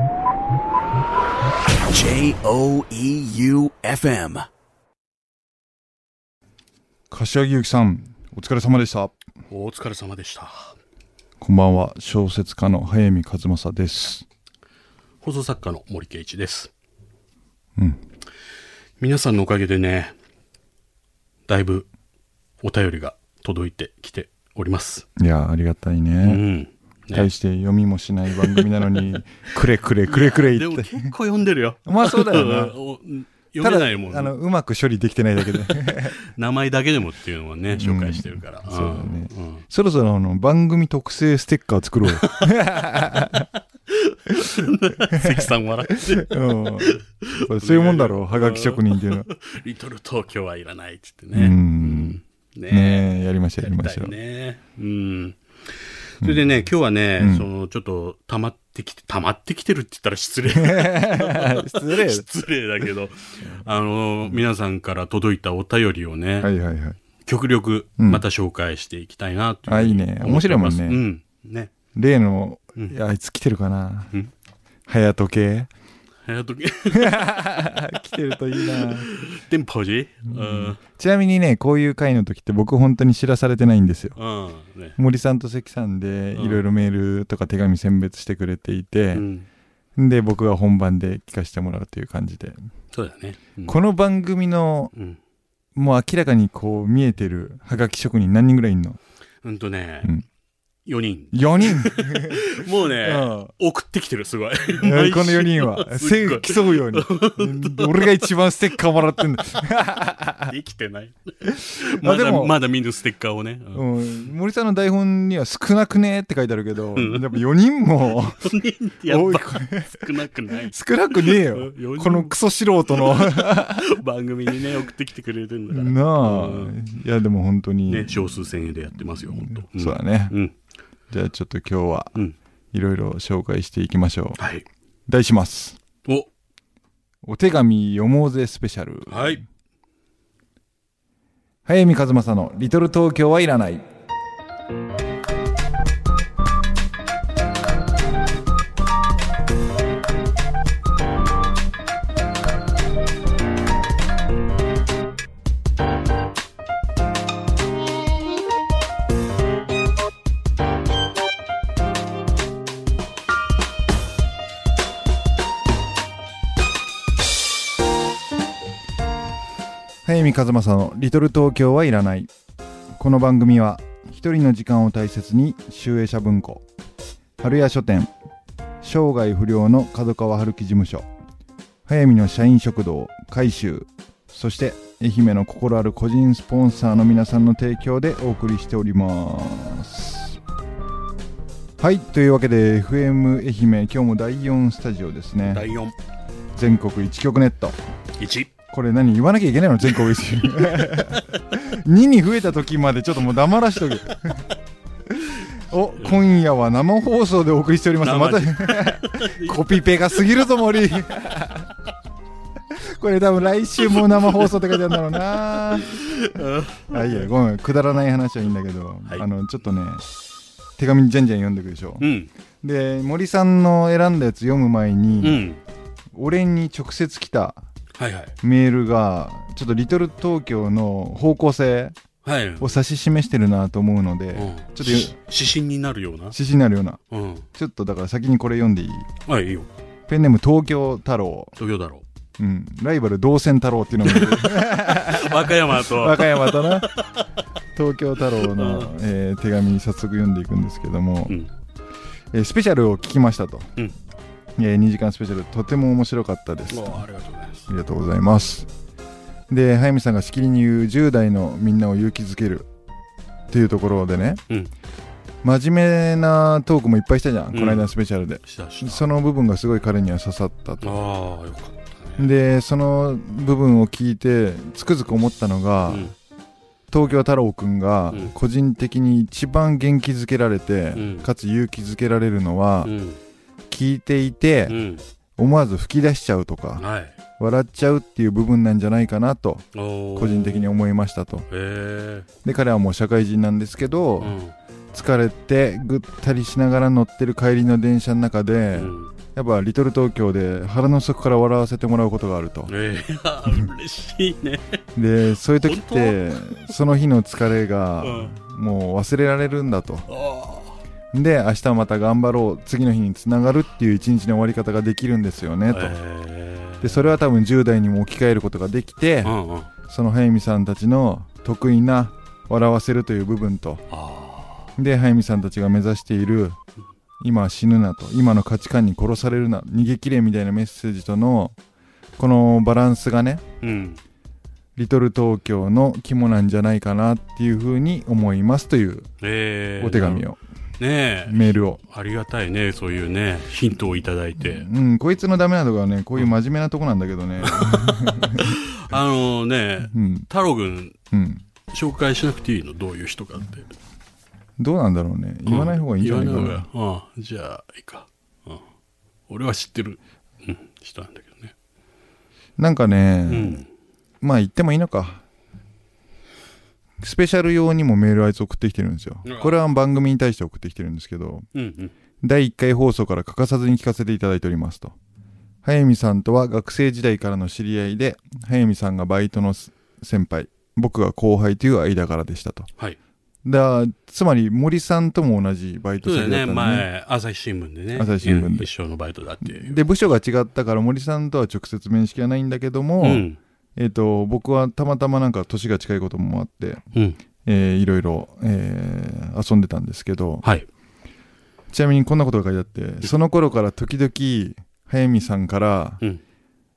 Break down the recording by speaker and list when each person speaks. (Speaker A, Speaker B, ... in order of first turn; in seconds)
Speaker A: 1.8-4.5
Speaker B: 7.1-9.2, 11.4-14.2, 17.8-18.0, 25.2-26.4, 27.1-31.1, 31.9-32.8, 33.6-36.2, 37.7-43.5, 44.5-49.3, 51.3-52.2, 52.7-54.1, 57.2-57.5, 60.5-62.3, 66.4-67.0, 69.7-71.0, 72.0-74.1, 74.9-75.7, 76.9-79.1, 80.3-84.2, 85.0-89.2, 90.0-92.6, 93.7-94.9, 95.8-99.0, 101.3-103.5, 104.8-110.5, 111.5-112.6, 113.7-118.4, 119.1-123.9, 125.7-130.3, 131.1-132.2, 132.7-134.4, 135.1-135.8, 137.2-139.4, 141.7-143.9, 170.1-172.3, 173.0-176.6, 177.4-178.1, 178.8-181.1, 181.9-190.4, 191.8-195.7, 196.6-197.8, 198.7-204.5, 205.1-211.7, 212.7-216.1, 216.9-220.0, 220.8-222.1, 222.6-225.4, 226.1-227.6, 228.4-232.0, 232.6-235.2, 236.3-237.0, 237.5-239.1, 240.1-241.5, 242.4-246.9, 247.8-251.4, 252.3-253.7, 254.6-257.0, 257.7-258.7, 259.5-262.7, 263.5-264.4, 265.4-271.0, 272.2-276.1, 276.9-282.9, 283.7-284.8, 285.4-286.8, 287.4-291.5, 292.4-294.4, 294.9-302.7, 305.0-310.1, 311.1-316.0, 316.8-323.8, 324.8-326.6, 327.2-331.6, 332.2-333.4, 334.8-339.1, 339.8-340.4, 341.3-341.8, 344.4-348.6, 349.9-350.3, 351.1-351.4, 354.6-356.7, 362.6-363.6, 364.2-365.2, 367.0-371.5, 372.2-374.9, 375.6-382.7, 383.4-386.9, 387.9-388.7, 389.4-393.2, 393.8-396.8, 397.4-400.4, 401.7-406.0
Speaker C: 9.5-10.8, 15.2-16.7, 19.0-20.1, 21.5-21.9, 22.6-25.1, 26.2-27.3, 30.1-34.3, 35.8-39.6, 42.1-42.5, 43.9-55.4, 56.2-66.5, 67.3-71.7, 76.3-77.3, 78.6-80.8, 84.2-85.0, 86.4-86.6, 89.1-89.5, 92.9-93.8, 99.4-100.1, 100.9-108.3, 110.5-113.8, 117.0-117.4, 118.2-122.3, 122.9-126.8, 127.9-130.5, 134.4-134.7, 139.1-139.4, 195.4-195.9, 198.2-198.5, 200.6-201.0, 208.0-209.8, 213.9-214.9, 215.5-217.3, 222.0-222.3, 225.2-225.6, 228.0-228.3, 232.2-232.7, 234.3-236.4, 237.1-237.5, 239.3-239.7, 241.6-242.0, 244.1-247.3, 248.4-248.9, 256.7-257.7, 267.5-267.9, 268.4-269.1, 270.8-272.3, 275.9-276.1, 280.9-281.3, 282.8-283.2, 284.7-285.0, 286.8-287.2, 289.7-290.8, 291.5-292.3, 294.2-294.5, 298.7-299.1, 302.7-304.8, 305.6-306.2, 308.0-308.3, 310.1-310.8, 315.7-317.0, 319.2-319.7, 323.9-324.7, 333.6-334.0, 339.2-340.3, 340.8-344.7, 347.4-350.9, 351.7-353.7, 355.5-358.6, 359.3-361.5, 363.3-363.7, 369.2-369.6, 371.5-371.9, 386.0-389.8, 393.0-393.4, 396.9-397.2